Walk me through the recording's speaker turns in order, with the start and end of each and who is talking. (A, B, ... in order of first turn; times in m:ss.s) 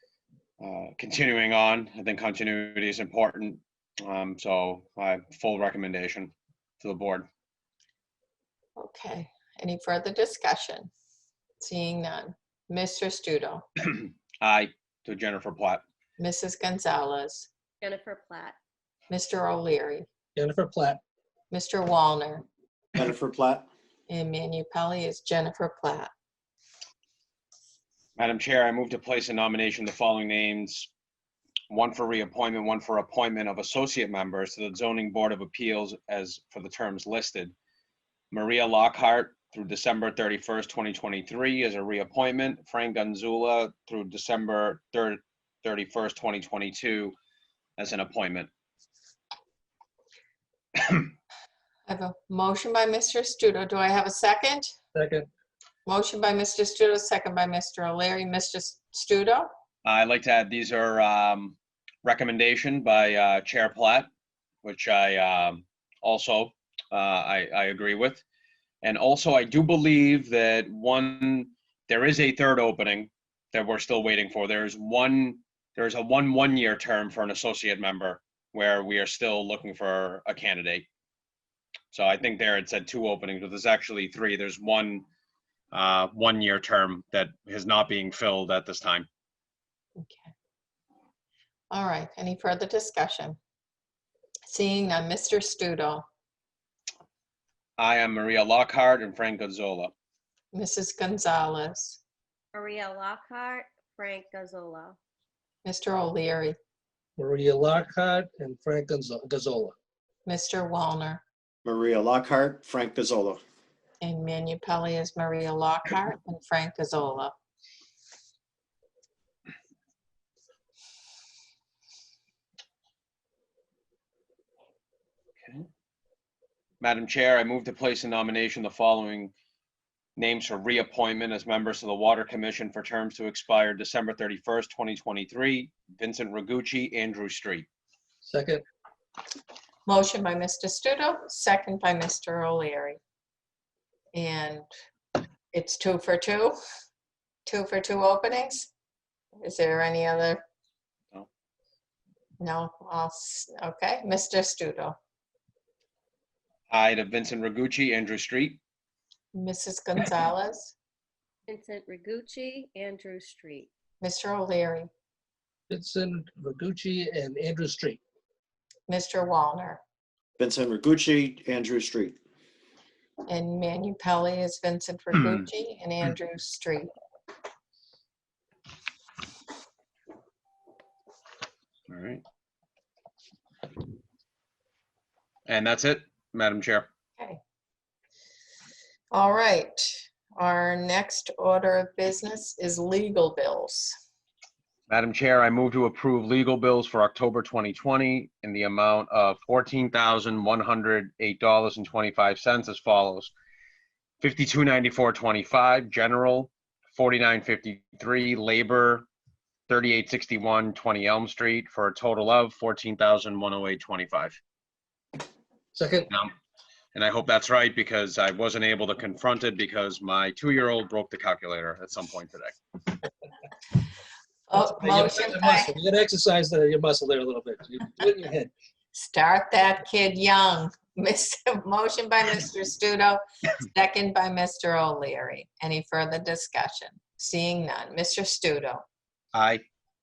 0:00.6-0:07.3 A
0:08.8-0:10.9 B
0:11.6-0:13.6 B
0:14.4-0:15.8 A
0:16.2-0:17.5 B
0:17.8-0:18.6 C
0:19.1-0:20.0 B
0:20.4-0:21.0 D
0:21.5-0:22.4 B
0:22.9-0:23.7 E
0:24.1-0:26.1 B
0:28.2-0:30.9 A
0:31.7-0:37.5 A
0:38.3-0:47.1 A
0:47.8-0:48.5 A
0:51.9-0:54.7 B
0:54.9-0:55.3 D
0:55.8-0:59.5 B
0:59.8-1:04.1 A
1:04.6-1:08.2 A
1:08.8-1:20.9 A
1:21.9-1:25.0 A
1:25.7-1:29.1 A
1:30.0-1:30.3 B
1:31.7-1:33.4 B
1:34.5-1:36.0 B
1:37.8-1:39.9 A
1:40.5-1:42.0 B
1:42.5-1:45.0 C
1:45.6-1:46.6 B
1:47.2-1:49.7 D
1:50.2-1:51.2 B
1:51.6-1:53.4 E
1:54.0-1:57.3 B
2:06.8-2:09.3 A
2:10.2-2:17.7 A
2:18.2-2:18.6 D
2:19.8-2:23.0 B
2:24.1-2:24.6 B
2:25.5-2:26.6 B
2:27.4-2:28.7 B
2:29.4-2:30.4 B
2:32.4-2:35.0 B
2:36.7-2:38.6 A
2:39.3-2:40.7 B
2:41.5-2:43.7 C
2:44.0-2:44.9 B
2:45.7-2:48.0 D
2:48.9-2:49.8 B
2:50.4-2:52.2 E
2:53.3-2:56.9 B
3:01.9-3:02.2 A
3:05.5-3:06.9 A
3:09.1-3:14.0 B
3:14.9-3:23.3 A
3:24.2-3:29.0 A
3:29.7-3:34.4 A
3:35.7-3:36.1 D
3:36.9-3:42.6 A
3:44.5-3:45.7 B
3:44.6-3:48.5 D
3:48.9-3:58.8 B
3:59.3-3:59.6 A